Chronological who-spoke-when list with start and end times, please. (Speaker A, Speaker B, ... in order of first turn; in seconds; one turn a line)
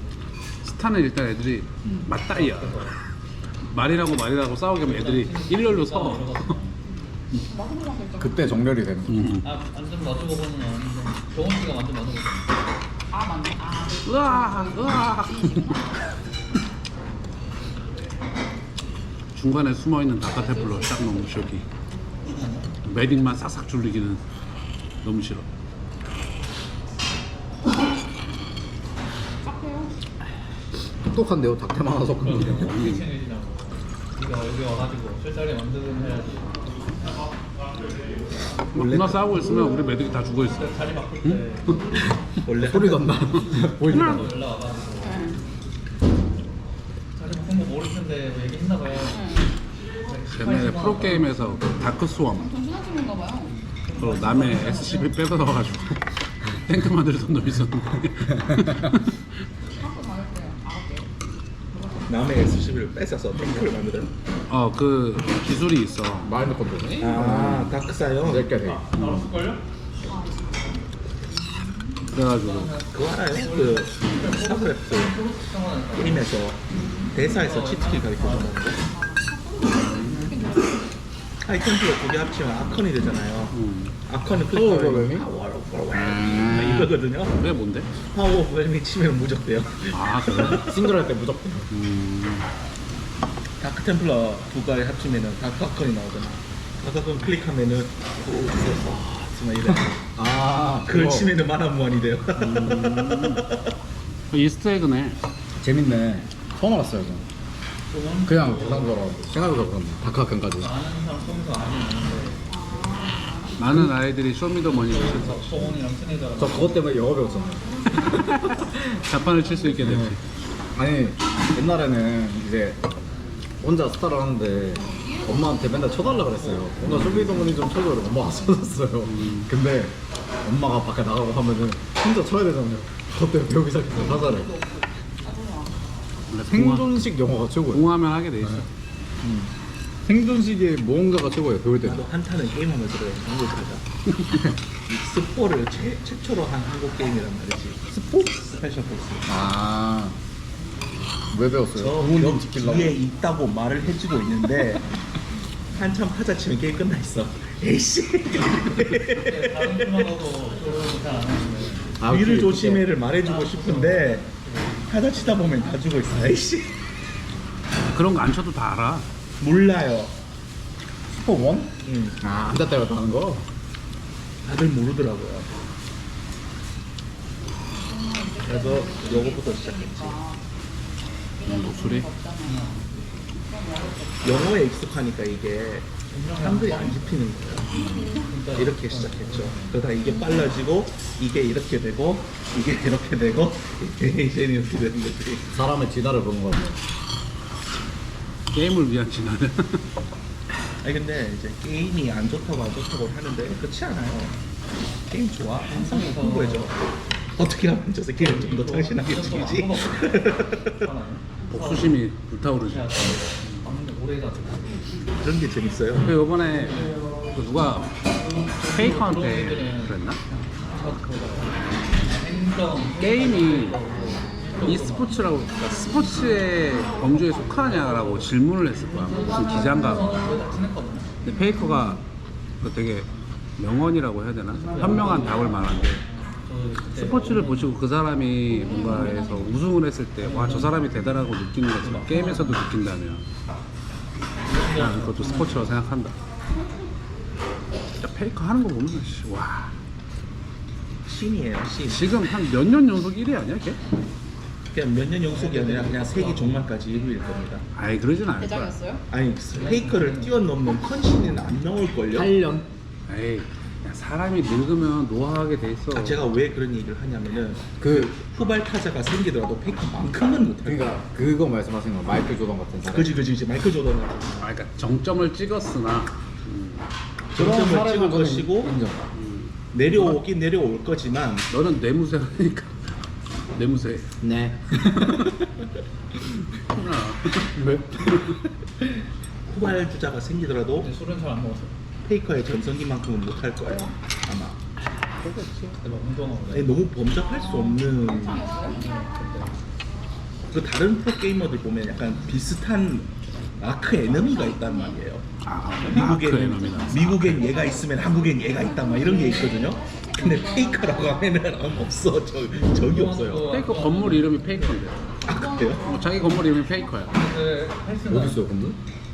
Speaker A: 0.6-2.9
Speaker B: 1.8-2.1
Speaker C: 2.3-2.9
Speaker A: 3.6-6.6
Speaker C: 4.8-6.8
Speaker D: 7.5-8.7
Speaker B: 8.2-9.3
Speaker A: 9.1-9.5
Speaker C: 9.4-12.5
Speaker D: 13.1-16.0
Speaker A: 14.1-15.8
Speaker A: 19.3-21.7
Speaker D: 20.2-21.5
Speaker C: 22.2-22.7
Speaker A: 22.8-24.2
Speaker A: 25.0-25.5
Speaker D: 29.4-29.9
Speaker B: 31.1-32.7
Speaker C: 32.1-36.8
Speaker A: 32.5-33.1
Speaker E: 38.7-39.6
Speaker A: 38.7-42.0
Speaker C: 40.5-41.9
Speaker E: 42.5-43.4
Speaker B: 42.6-44.3
Speaker A: 43.4-44.3
Speaker C: 43.6-45.3
Speaker D: 45.0-45.4
Speaker C: 47.1-49.3
Speaker D: 49.1-49.6
Speaker C: 50.0-51.4
Speaker A: 50.3-52.5
Speaker D: 52.3-53.6
Speaker C: 53.8-55.3
Speaker A: 54.0-59.2
Speaker D: 59.8-61.1
Speaker E: 62.0-64.1
Speaker A: 64.5-67.7
Speaker B: 66.2-68.9
Speaker E: 67.0-68.6
Speaker C: 68.7-69.6
Speaker A: 68.9-69.3
Speaker D: 70.1-70.7
Speaker D: 71.3-72.0
Speaker A: 72.1-72.8
Speaker C: 72.2-76.4
Speaker E: 72.9-75.2
Speaker E: 76.0-78.8
Speaker D: 76.7-77.2
Speaker C: 77.2-78.7
Speaker D: 78.9-80.8
Speaker A: 79.7-80.3
Speaker E: 81.4-87.4
Speaker A: 83.5-83.9
Speaker B: 84.5-85.3
Speaker B: 85.9-86.9
Speaker A: 87.3-87.9
Speaker E: 88.0-90.9
Speaker A: 89.9-90.6
Speaker B: 90.3-91.7
Speaker A: 91.7-92.5
Speaker E: 93.6-100.0
Speaker B: 99.6-101.3
Speaker E: 100.9-103.5
Speaker A: 102.4-103.5
Speaker A: 104.3-105.2
Speaker B: 105.6-107.3
Speaker C: 107.9-109.0
Speaker B: 108.3-110.7
Speaker C: 110.6-112.4
Speaker D: 112.5-113.6
Speaker A: 113.6-115.8
Speaker C: 114.6-117.0
Speaker B: 116.4-117.7
Speaker D: 117.2-118.2
Speaker A: 117.9-120.2
Speaker B: 119.8-120.2
Speaker B: 120.8-122.8
Speaker B: 123.6-134.5
Speaker D: 124.7-126.2
Speaker C: 126.0-126.7
Speaker A: 126.9-127.5
Speaker A: 129.1-129.5
Speaker D: 133.9-135.8
Speaker A: 136.3-137.2
Speaker B: 136.5-137.9
Speaker A: 137.7-138.7
Speaker B: 138.4-138.7
Speaker B: 139.2-139.5
Speaker B: 140.0-142.1
Speaker E: 141.8-143.8
Speaker E: 144.9-149.3
Speaker B: 149.3-150.2
Speaker B: 151.3-153.0
Speaker E: 151.7-154.9
Speaker E: 155.7-160.2
Speaker C: 159.1-162.0
Speaker B: 162.0-162.9
Speaker E: 162.0-164.3
Speaker C: 163.2-165.9
Speaker E: 164.9-166.8
Speaker A: 167.9-169.1
Speaker E: 169.4-170.2
Speaker B: 171.1-173.5
Speaker E: 171.8-172.2
Speaker E: 174.4-175.6
Speaker D: 177.7-180.4
Speaker E: 178.4-180.2
Speaker D: 181.4-182.7
Speaker A: 181.5-182.1
Speaker C: 182.5-182.9
Speaker D: 183.4-184.5
Speaker E: 184.2-195.6
Speaker C: 186.1-187.2
Speaker D: 187.7-188.3
Speaker C: 188.1-189.8
Speaker D: 190.0-190.5
Speaker B: 195.5-196.8
Speaker A: 198.5-199.8
Speaker E: 200.8-204.4
Speaker E: 205.1-210.8
Speaker C: 205.6-206.8
Speaker C: 208.2-214.8
Speaker A: 211.5-213.7
Speaker E: 215.2-216.2
Speaker A: 215.9-218.0
Speaker C: 216.7-216.9
Speaker C: 218.4-225.2
Speaker A: 218.6-220.2
Speaker A: 223.0-223.8
Speaker D: 224.1-224.7
Speaker A: 224.6-230.3
Speaker D: 225.2-227.8
Speaker C: 227.7-231.2
Speaker D: 229.2-230.4
Speaker D: 231.2-231.9
Speaker A: 231.2-232.0
Speaker A: 232.6-236.1
Speaker C: 234.6-237.7
Speaker A: 236.9-243.3
Speaker D: 238.5-239.6
Speaker C: 238.8-239.2
Speaker C: 240.2-241.2
Speaker C: 241.8-242.6
Speaker C: 244.4-245.8
Speaker A: 244.7-246.2
Speaker A: 248.0-249.7
Speaker E: 251.1-252.2
Speaker A: 251.9-253.8
Speaker E: 254.7-257.6
Speaker C: 255.2-256.9
Speaker A: 257.7-258.8
Speaker D: 258.4-259.1
Speaker E: 259.1-262.3
Speaker C: 259.5-260.4
Speaker B: 262.1-262.7
Speaker A: 263.1-266.2
Speaker E: 265.9-271.1
Speaker B: 267.8-268.2
Speaker B: 270.6-273.1
Speaker E: 272.9-274.5
Speaker A: 274.4-276.9
Speaker E: 277.3-278.8
Speaker B: 277.3-279.1
Speaker A: 279.1-280.2
Speaker E: 279.7-281.5
Speaker A: 281.5-282.8
Speaker A: 283.5-284.1
Speaker B: 284.2-285.5
Speaker A: 286.5-288.4
Speaker B: 287.6-288.4
Speaker E: 289.4-290.9
Speaker C: 290.8-291.8
Speaker E: 292.0-294.6
Speaker D: 293.7-293.9
Speaker A: 295.2-295.8
Speaker C: 295.8-296.9
Speaker E: 296.5-298.6
Speaker D: 297.4-299.1
Speaker C: 298.6-299.5
Speaker E: 300.5-305.2
Speaker D: 304.2-305.0
Speaker A: 305.4-307.5
Speaker E: 305.9-313.5
Speaker D: 308.4-311.3
Speaker C: 312.6-314.9
Speaker A: 313.4-315.0
Speaker E: 315.2-315.9
Speaker D: 315.3-316.9
Speaker A: 315.8-317.1
Speaker C: 317.1-318.4
Speaker B: 318.1-318.8